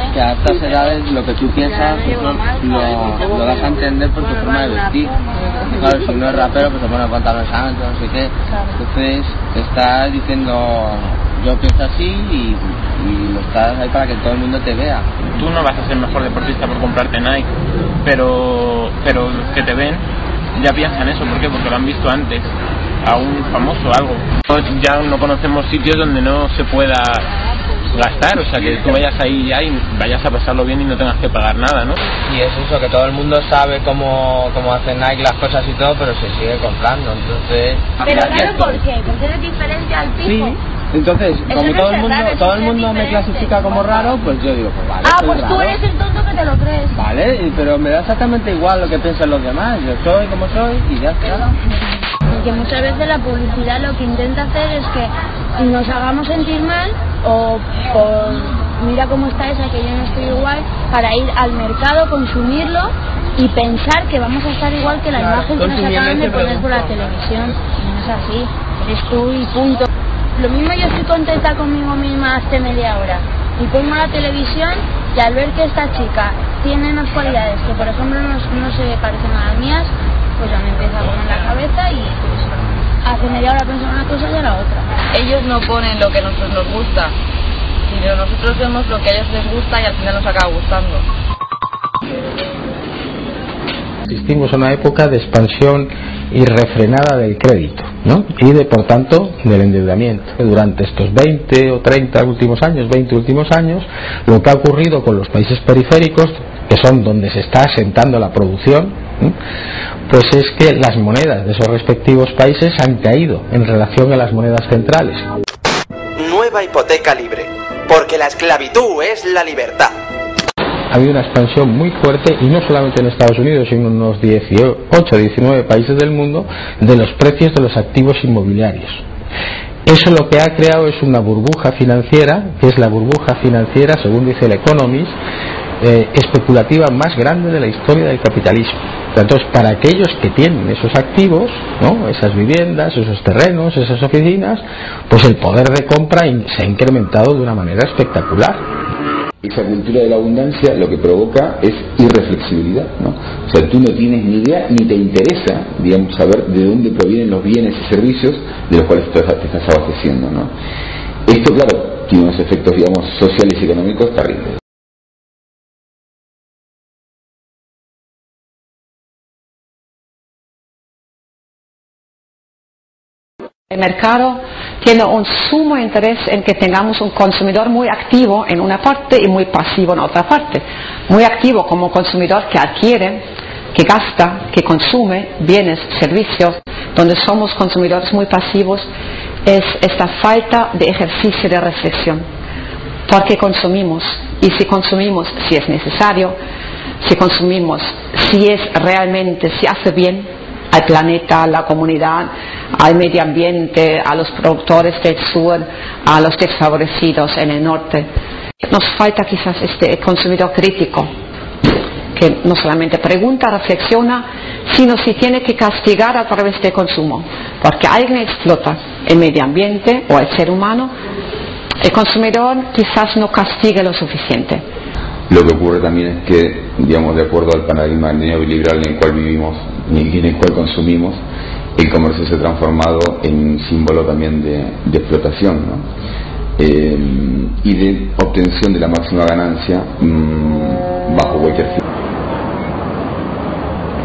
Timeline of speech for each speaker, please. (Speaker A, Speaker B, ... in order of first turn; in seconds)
Speaker A: 0.1-5.1, 5.7-15.1, 32.3-38.6, 40.2-45.8, 46.9-51.5
Speaker B: 15.3-17.5, 18.0-20.0, 20.5-22.4, 23.0-27.3, 27.9-32.0
Speaker C: 38.0-40.6, 41.5-44.1, 45.0-47.0, 52.3-82.3, 83.0-84.9
Speaker D: 38.1-38.6, 42.2-42.8, 65.8-66.3, 173.7-188.9, 189.4-192.2, 193.1-196.4, 197.0-208.1, 208.6-211.1, 212.1-220.9, 221.8-224.6
Speaker E: 85.1-87.1, 87.9-91.0
Speaker F: 94.1-109.3, 110.1-115.3, 120.9-129.0, 129.8-135.2, 135.8-148.6
Speaker G: 116.2-119.9
Speaker H: 149.4-160.5, 161.2-164.5, 225.3-231.2, 231.8-235.9, 236.6-241.8